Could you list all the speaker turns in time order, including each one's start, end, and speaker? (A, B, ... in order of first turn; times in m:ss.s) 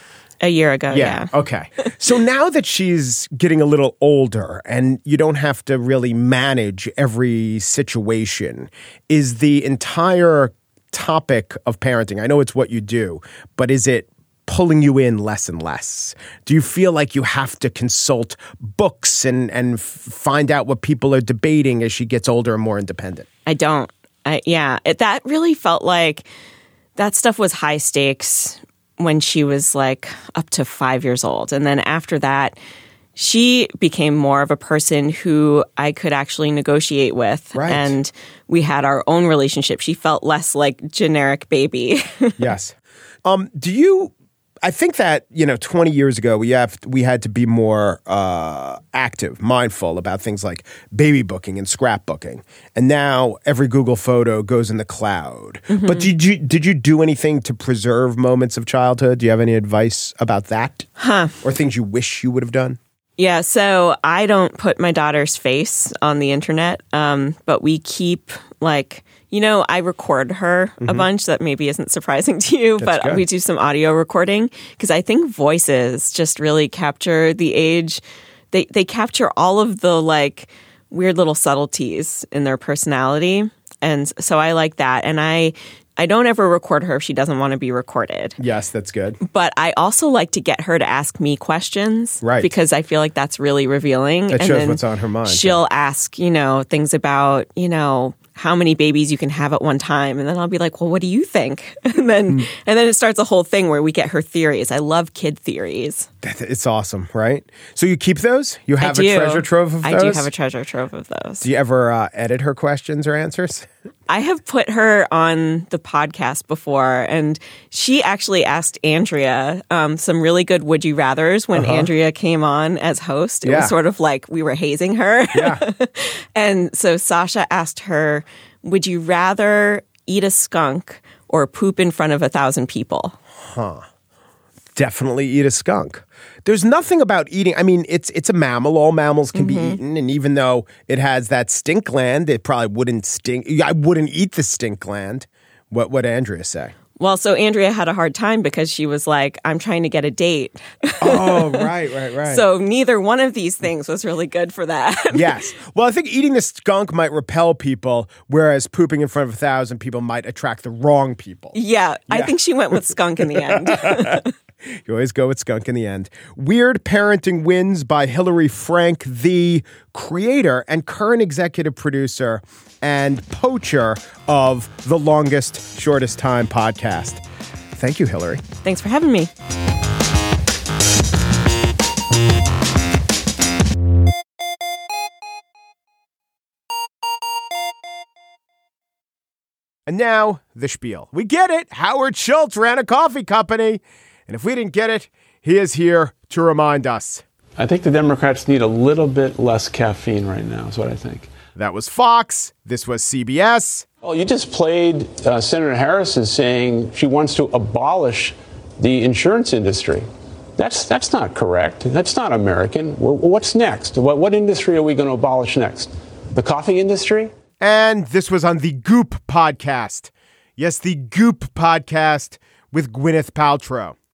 0:00.4-0:01.3 A
0:00.9-0:23.3 B
0:23.4-0:26.2 A
0:27.0-0:32.5 A
0:33.2-0:42.4 A
0:37.5-0:37.9 B
0:42.4-0:44.1 B
0:44.6-1:00.9 B
0:55.7-0:56.1 A
1:01.0-1:01.3 A
1:01.4-1:02.8 B
1:03.2-1:18.0 A
1:12.8-1:13.2 B
1:18.5-1:28.4 A
1:28.4-1:29.2 B
1:29.2-1:46.1 A
1:32.2-1:32.5 B
1:34.3-1:35.6 B
1:46.2-1:50.3 B
1:48.8-1:51.4 A
1:51.4-1:53.7 B
1:54.1-2:13.2 A
2:01.5-2:01.9 B
2:03.4-2:03.7 B
2:05.3-2:05.6 B
2:13.4-2:13.8 B
2:14.8-2:26.7 B
2:19.3-2:19.8 A
2:27.0-2:31.7 A
2:31.0-2:32.4 B
2:32.2-2:35.5 A
2:35.1-2:41.6 B
2:41.5-2:44.3 A
2:43.2-2:57.2 B
2:57.8-2:58.4 B
2:58.6-2:59.3 A
3:09.9-3:17.2 B
3:17.6-3:21.3 C
3:21.6-3:23.8 B
3:24.0-3:30.0 C
3:30.6-3:37.3 C
3:37.6-3:44.0 B